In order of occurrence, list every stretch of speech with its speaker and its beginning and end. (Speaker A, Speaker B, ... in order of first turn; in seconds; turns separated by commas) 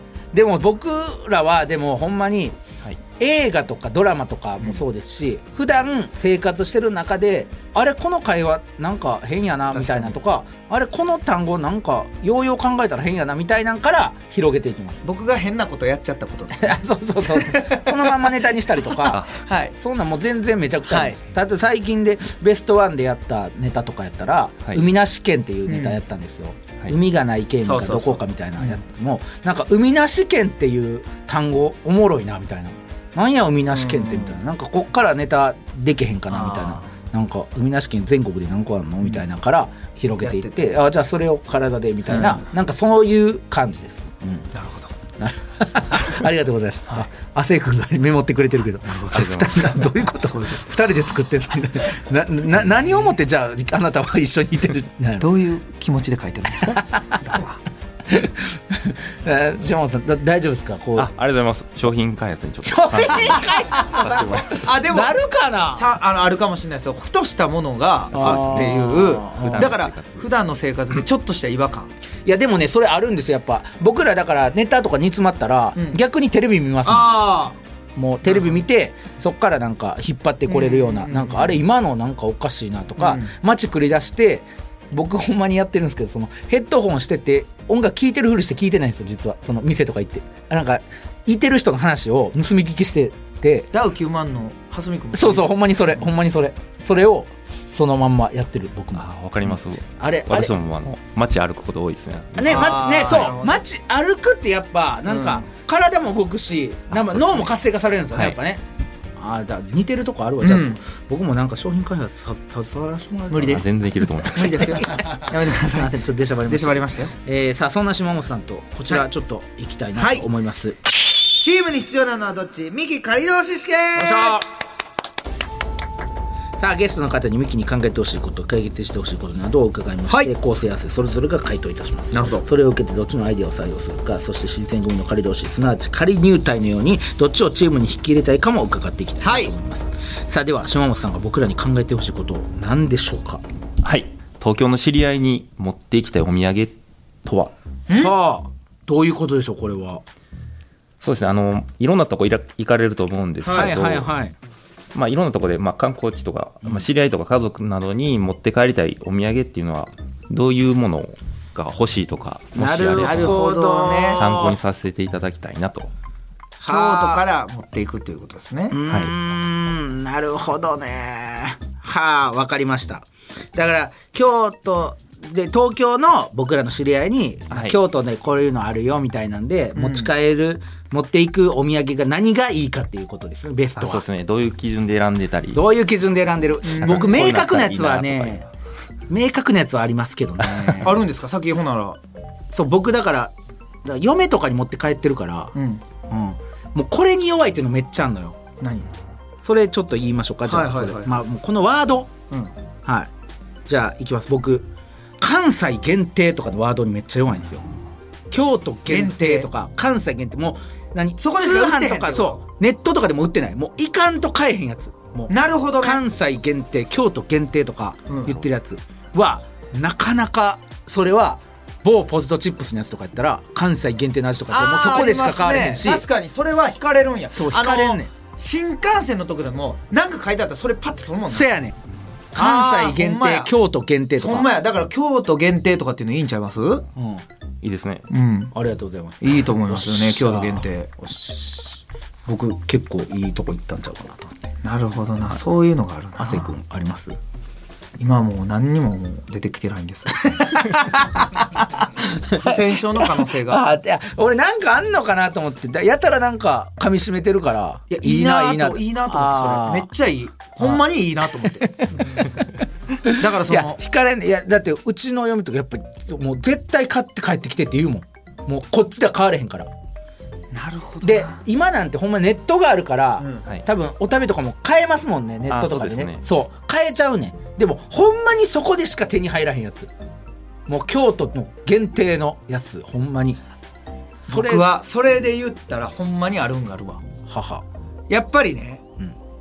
Speaker A: 0.3-2.6, Speaker A: 3.2-15.0, Speaker B: 9.7-10.2, Speaker B: 15.0-18.4, Speaker A: 16.5-44.5, Speaker B: 19.3-19.8, Speaker B: 20.9-21.2, Speaker B: 25.7-26.0, Speaker B: 27.6-28.8, Speaker B: 33.7-34.4, Speaker B: 36.3-36.9, Speaker B: 40.2-40.7, Speaker B: 42.1-42.5, Speaker B: 44.5-44.9, Speaker A: 45.2-55.3, Speaker C: 49.1-49.9, Speaker B: 50.2-50.6, Speaker B: 55.2-57.6, Speaker A: 56.6-57.4, Speaker A: 58.1-61.1, Speaker C: 61.0-64.6, Speaker A: 62.6-65.9, Speaker B: 63.8-65.1, Speaker B: 65.8-71.9, Speaker C: 68.1-70.3, Speaker A: 68.1-69.8, Speaker A: 72.2-77.2, Speaker B: 76.8-77.6, Speaker A: 78.0-93.7, Speaker B: 78.2-78.6, Speaker B: 80.5-81.6, Speaker B: 83.0-83.3, Speaker B: 93.7-95.7, Speaker A: 95.1-100.5, Speaker C: 99.0-103.3, Speaker A: 102.4-108.6, Speaker B: 102.4-103.6, Speaker B: 105.1-105.5, Speaker C: 106.9-107.5, Speaker A: 109.2-113.7, Speaker B: 110.4-110.8, Speaker B: 113.3-113.7, Speaker C: 113.4-114.8, Speaker B: 114.2-117.1, Speaker A: 114.4-120.8, Speaker B: 120.0-120.2, Speaker B: 121.4-124.4, Speaker A: 124.0-124.5, Speaker A: 126.6-143.4, Speaker B: 132.1-132.5, Speaker B: 139.2-139.5, Speaker C: 143.8-147.5, Speaker B: 147.9-148.1, Speaker A: 147.9-150.0, Speaker C: 151.0-154.1, Speaker B: 153.4-153.7, Speaker A: 153.5-154.4, Speaker C: 154.9-163.4, Speaker A: 162.5-164.5, Speaker B: 163.0-164.6, Speaker C: 164.1-165.9, Speaker A: 166.6-167.2, Speaker B: 166.7-168.8, Speaker A: 168.7-184.0, Speaker C: 177.5-177.8, Speaker B: 179.8-180.1, Speaker C: 183.8-185.6, Speaker A: 185.5-188.4, Speaker B: 186.6-187.1, Speaker C: 186.8-188.5, Speaker A: 189.1-190.9, Speaker B: 190.8-192.0, Speaker A: 192.5-193.3, Speaker A: 193.8-195.5, Speaker B: 195.5-195.8, Speaker A: 196.1-198.4, Speaker B: 198.6-198.9, Speaker A: 199.4-202.1, Speaker B: 200.4-201.1, Speaker A: 202.8-203.1, Speaker A: 203.7-204.7, Speaker A: 205.2-207.7, Speaker A: 208.3-226.1, Speaker B: 208.9-209.5, Speaker B: 211.2-212.4, Speaker B: 215.3-216.0, Speaker B: 218.1-218.4, Speaker B: 224.5-231.5, Speaker A: 227.3-228.1, Speaker A: 231.3-231.8, Speaker A: 232.3-234.5, Speaker B: 232.3-233.5, Speaker B: 234.2-236.9, Speaker A: 236.9-237.2, Speaker C: 237.6-238.1, Speaker B: 238.1-238.5, Speaker A: 238.5-244.3, Speaker B: 239.2-240.9, Speaker B: 244.6-246.5, Speaker A: 246.2-247.2, Speaker B: 248.0-251.0, Speaker A: 250.3-259.9, Speaker B: 252.2-253.7, Speaker B: 257.9-262.3, Speaker A: 260.6-269.7, Speaker B: 263.1-263.8, Speaker B: 270.5-271.4, Speaker A: 271.0-279.9, Speaker B: 273.2-273.4, Speaker C: 275.5-276.2, Speaker A: 280.7-283.4, Speaker A: 284.2-284.8, Speaker B: 284.3-287.0, Speaker A: 287.3-287.6, Speaker B: 288.1-288.8